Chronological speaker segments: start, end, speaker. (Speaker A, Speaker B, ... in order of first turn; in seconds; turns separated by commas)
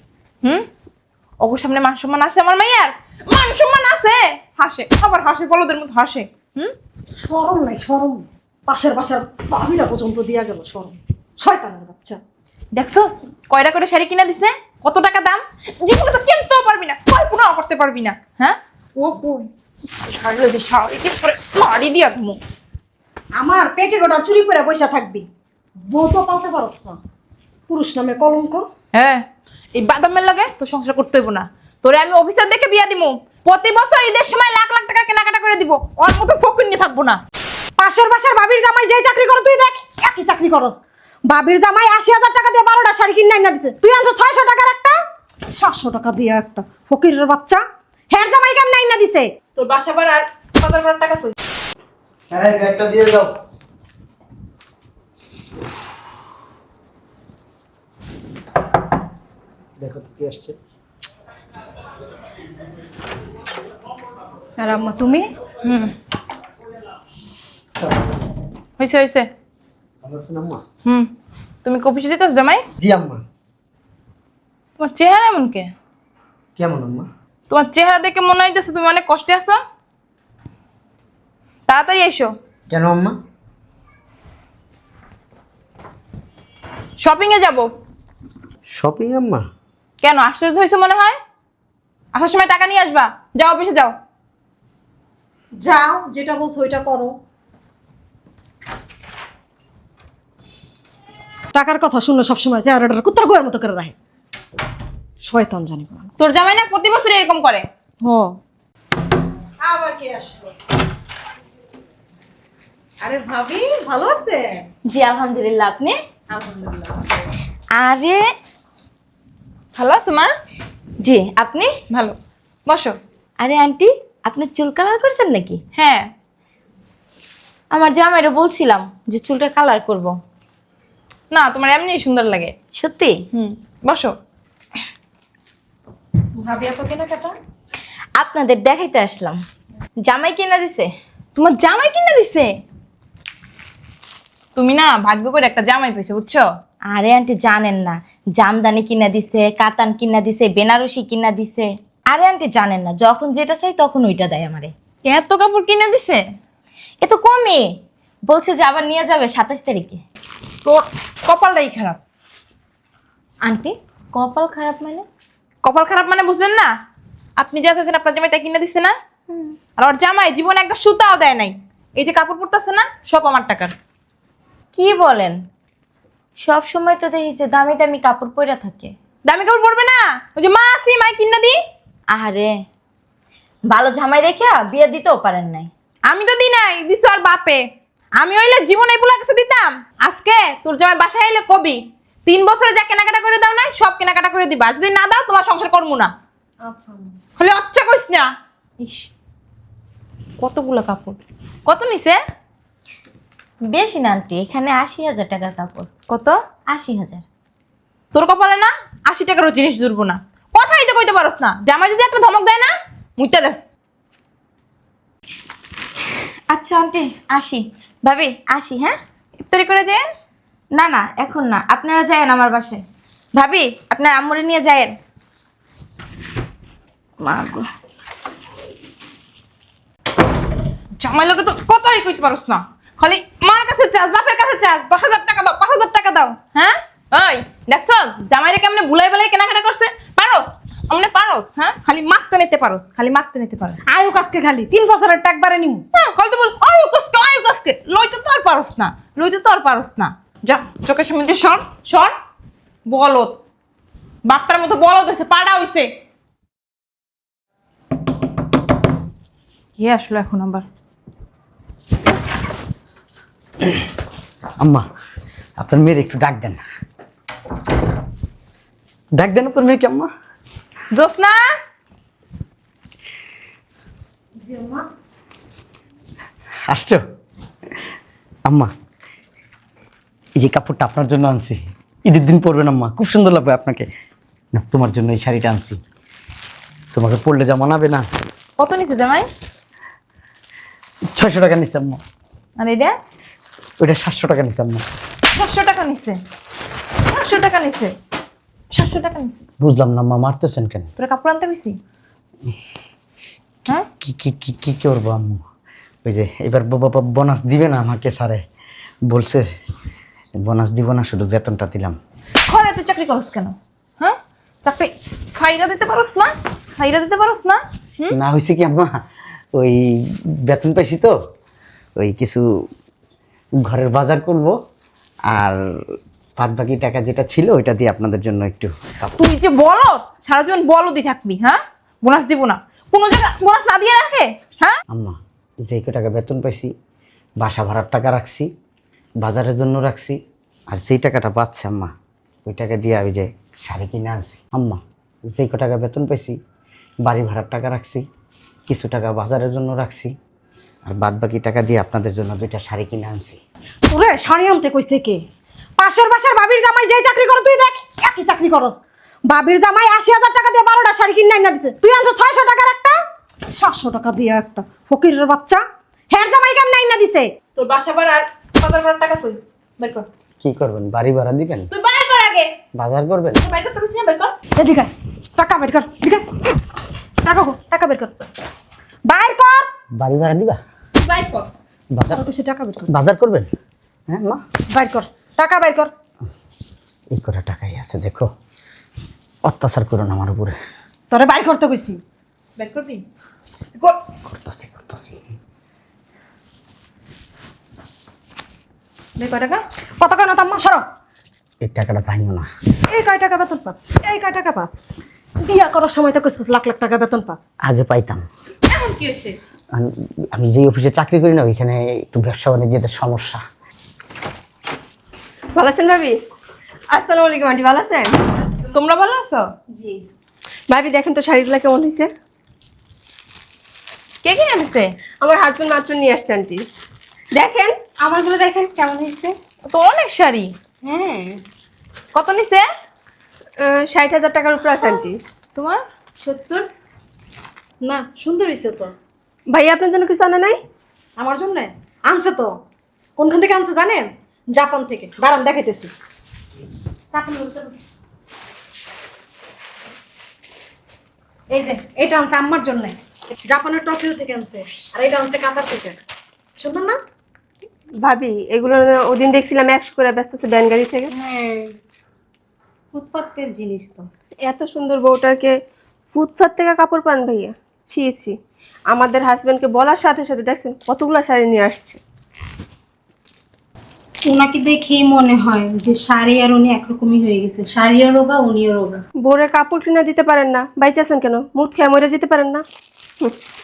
Speaker A: 1.4-6.7, Speaker B: 7.2-12.2, Speaker A: 12.7-19.5, Speaker A: 20.1-22.4, Speaker B: 23.4-25.2, Speaker B: 25.9-27.0, Speaker B: 27.7-28.7, Speaker A: 28.9-29.2, Speaker A: 29.8-37.2, Speaker B: 37.8-45.0, Speaker B: 45.6-49.3, Speaker A: 49.5-51.4, Speaker C: 52.3-53.3, Speaker C: 59.8-60.5, Speaker B: 64.6-65.3, Speaker A: 65.6-65.9, Speaker A: 68.8-69.3, Speaker C: 70.0-70.6, Speaker A: 70.8-71.1, Speaker A: 71.6-72.7, Speaker C: 72.8-73.2, Speaker A: 74.8-75.7, Speaker C: 76.6-77.1, Speaker A: 77.5-79.6, Speaker A: 81.7-82.3, Speaker C: 82.7-83.2, Speaker A: 87.0-87.7, Speaker C: 88.7-89.5, Speaker A: 90.0-91.2, Speaker A: 92.1-93.9, Speaker B: 95.6-97.1, Speaker B: 101.5-104.0, Speaker B: 105.2-106.1, Speaker A: 106.2-107.7, Speaker B: 108.0-108.3, Speaker B: 109.6-110.5, Speaker B: 113.0-114.7, Speaker D: 114.9-116.0, Speaker B: 116.3-117.1, Speaker D: 117.8-118.2, Speaker A: 119.8-120.3, Speaker D: 121.0-121.7, Speaker A: 121.9-122.2, Speaker A: 122.7-123.0, Speaker D: 123.4-125.6, Speaker A: 125.8-126.1, Speaker D: 127.7-130.2, Speaker A: 131.3-132.6, Speaker D: 132.7-133.2, Speaker A: 133.3-134.1, Speaker B: 136.4-137.3, Speaker D: 138.2-139.4, Speaker D: 140.0-140.9, Speaker A: 141.4-142.6, Speaker A: 144.6-146.5, Speaker D: 146.9-154.7, Speaker A: 155.1-156.2, Speaker D: 157.0-157.7, Speaker D: 158.3-160.0, Speaker A: 160.6-162.0, Speaker D: 163.4-165.1, Speaker A: 165.6-166.7, Speaker A: 167.4-168.9, Speaker D: 169.3-169.6, Speaker A: 169.8-173.7, Speaker D: 174.7-175.4, Speaker D: 176.4-178.9, Speaker A: 179.3-181.6, Speaker D: 182.1-182.5, Speaker D: 183.7-185.7, Speaker A: 186.1-187.6, Speaker A: 188.2-196.1, Speaker B: 196.6-197.1, Speaker A: 197.4-199.1, Speaker A: 200.4-202.2, Speaker D: 203.6-205.9, Speaker A: 206.1-206.4, Speaker D: 206.7-207.2, Speaker A: 208.1-213.7, Speaker D: 216.5-219.0, Speaker A: 219.4-220.0, Speaker D: 220.8-222.8, Speaker D: 223.3-224.9, Speaker D: 227.2-227.7, Speaker A: 231.0-243.8, Speaker B: 243.9-245.8, Speaker A: 245.9-252.2, Speaker A: 252.9-253.4, Speaker A: 254.2-255.9, Speaker A: 259.8-260.6, Speaker C: 264.6-264.9, Speaker C: 265.6-266.6, Speaker C: 269.2-270.1, Speaker A: 270.9-271.4, Speaker B: 274.4-274.9, Speaker C: 276.7-277.0, Speaker C: 280.4-283.9, Speaker C: 284.5-285.8, Speaker C: 286.9-288.1, Speaker A: 288.6-289.3, Speaker C: 291.1-292.0, Speaker A: 292.6-292.9, Speaker C: 293.8-294.8, Speaker A: 295.3-296.2, Speaker A: 297.1-297.9, Speaker A: 298.7-299.3, Speaker C: 299.6-300.9, Speaker A: 301.0-301.8, Speaker C: 304.0-305.4, Speaker C: 306.1-308.4, Speaker C: 309.1-309.5, Speaker C: 310.4-312.0, Speaker A: 312.5-318.2, Speaker C: 318.1-319.0, Speaker C: 319.6-321.1, Speaker C: 322.0-322.4, Speaker C: 323.6-324.6, Speaker C: 325.3-329.1, Speaker A: 329.2-334.8, Speaker C: 334.9-336.7, Speaker C: 337.4-338.5, Speaker C: 339.2-340.2, Speaker C: 340.7-341.9, Speaker C: 342.5-346.4, Speaker C: 347.0-348.0, Speaker C: 348.7-350.1, Speaker C: 350.9-353.4, Speaker B: 353.9-355.2, Speaker B: 355.8-363.0, Speaker B: 363.6-367.3, Speaker A: 367.6-370.1, Speaker C: 370.4-371.7, Speaker A: 371.7-372.5, Speaker C: 372.8-373.4, Speaker A: 373.4-374.3, Speaker B: 374.6-376.3, Speaker B: 377.2-378.1, Speaker B: 379.1-379.7, Speaker C: 380.0-380.6, Speaker A: 381.0-381.5, Speaker C: 381.9-382.2, Speaker B: 382.1-382.9, Speaker C: 382.9-383.5, Speaker C: 384.1-384.4, Speaker B: 384.7-385.9, Speaker C: 387.1-388.3, Speaker C: 389.4-390.6, Speaker B: 391.1-392.0, Speaker A: 392.6-393.0, Speaker C: 394.3-395.2, Speaker A: 399.2-399.6, Speaker B: 400.0-400.8, Speaker C: 401.6-402.5, Speaker B: 402.9-404.8, Speaker B: 405.4-407.5, Speaker C: 407.6-408.2, Speaker A: 408.7-409.4, Speaker C: 409.7-413.4, Speaker E: 415.5-416.2, Speaker E: 416.9-418.2, Speaker A: 418.7-419.5, Speaker B: 419.7-420.0, Speaker E: 420.7-422.1, Speaker A: 424.2-424.9, Speaker E: 425.2-426.6, Speaker E: 427.3-427.9, Speaker B: 427.9-429.4, Speaker A: 429.7-430.5, Speaker B: 430.8-431.4, Speaker A: 432.1-432.7, Speaker E: 433.6-435.2, Speaker A: 435.6-435.8, Speaker B: 436.2-436.7, Speaker B: 437.8-438.9, Speaker E: 439.5-440.6, Speaker B: 441.2-442.5, Speaker B: 443.2-445.9, Speaker B: 447.1-447.7, Speaker B: 451.5-453.0, Speaker B: 453.5-456.0, Speaker B: 456.6-457.0, Speaker E: 458.0-461.1, Speaker B: 461.3-461.7, Speaker B: 462.9-464.0, Speaker F: 463.0-464.1, Speaker E: 464.4-465.6, Speaker E: 466.1-468.4, Speaker E: 468.9-472.0, Speaker F: 474.3-479.0, Speaker E: 479.2-482.6